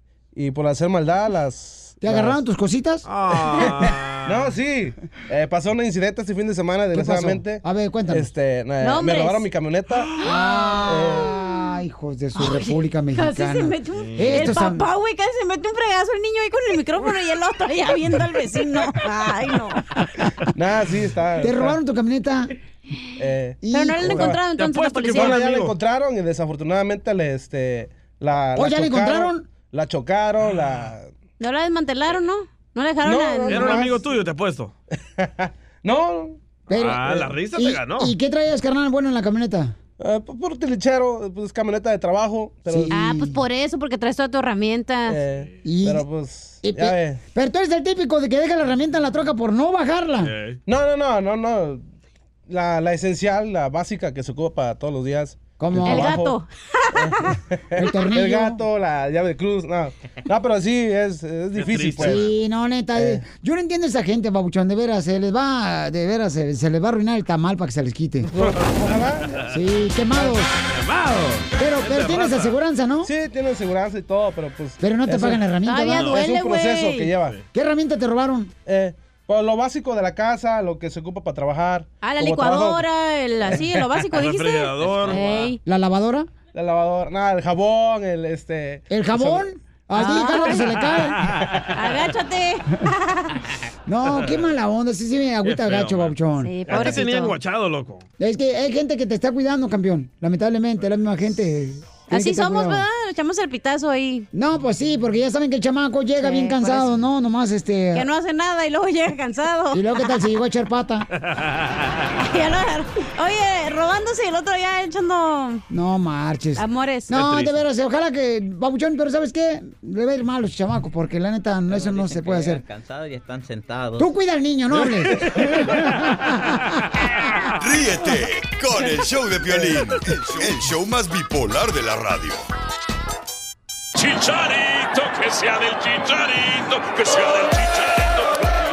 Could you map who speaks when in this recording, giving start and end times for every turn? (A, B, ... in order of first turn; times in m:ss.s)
0:00.3-0:02.4 A
0:02.0-0:03.1 B
0:03.0-0:04.5 C
0:04.3-0:10.1 A
0:06.9-0:08.3 B
0:08.8-0:09.4 D
0:10.2-0:14.9 B
0:10.2-0:11.5 D
0:10.9-0:11.3 A
0:12.4-0:19.8 D
0:14.0-0:14.5 C
0:20.6-0:21.8 A
0:21.4-0:22.5 B
0:23.2-0:24.4 A
0:23.6-0:24.4 B
0:23.7-0:25.5 D
0:24.4-0:25.8 C
0:25.1-0:31.1 A
0:28.6-0:29.5 B
0:30.4-0:30.9 C
0:31.4-0:33.9 D
0:33.0-0:33.8 A
0:33.5-0:34.7 C
0:33.5-0:34.0 B
0:35.2-0:36.5 A
0:36.7-0:39.7 B
0:36.7-0:38.1 C
0:40.0-0:42.9 A
0:42.7-0:43.4 B
0:42.9-0:45.2 D
0:45.1-0:47.2 A
0:45.6-0:46.1 B
0:46.6-0:50.3 B
0:50.2-0:50.6 C
0:50.7-0:51.8 A
0:52.5-0:56.4 A
0:55.6-0:56.3 B
0:55.8-0:57.4 D
0:57.8-1:02.3 A
0:57.8-0:58.6 B
1:01.5-1:02.3 C
1:02.0-1:08.3 B
1:03.0-1:03.3 A
1:08.3-1:09.4 A
1:08.4-1:09.4 C
1:09.5-1:10.6 B
1:10.7-1:12.6 C
1:11.6-1:13.1 B
1:13.0-1:15.5 A
1:14.8-1:16.2 B
1:15.6-1:17.1 D
1:16.1-1:17.4 A
1:17.5-1:18.5 B
1:18.7-1:22.8 A
1:22.0-1:25.6 D
1:24.1-1:25.5 C
1:25.6-1:26.3 B
1:26.5-1:29.5 A
1:28.9-1:31.2 B
1:29.9-1:30.8 D
1:30.8-1:31.5 C
1:31.7-1:33.4 D
1:33.9-1:37.0 B
1:35.4-1:38.0 C
1:36.4-1:37.4 D
1:38.2-1:42.8 B
1:42.1-1:44.3 D
1:44.3-1:48.1 B
1:46.2-1:47.0 D
1:47.9-1:50.2 D
1:49.7-1:51.1 B
1:52.2-1:55.6 D
1:55.7-2:02.6 B
1:56.6-1:57.2 D
1:57.1-1:57.6 C
2:02.1-2:04.0 E
2:04.0-2:06.5 B
2:07.6-2:12.5 F
2:14.0-2:18.5 G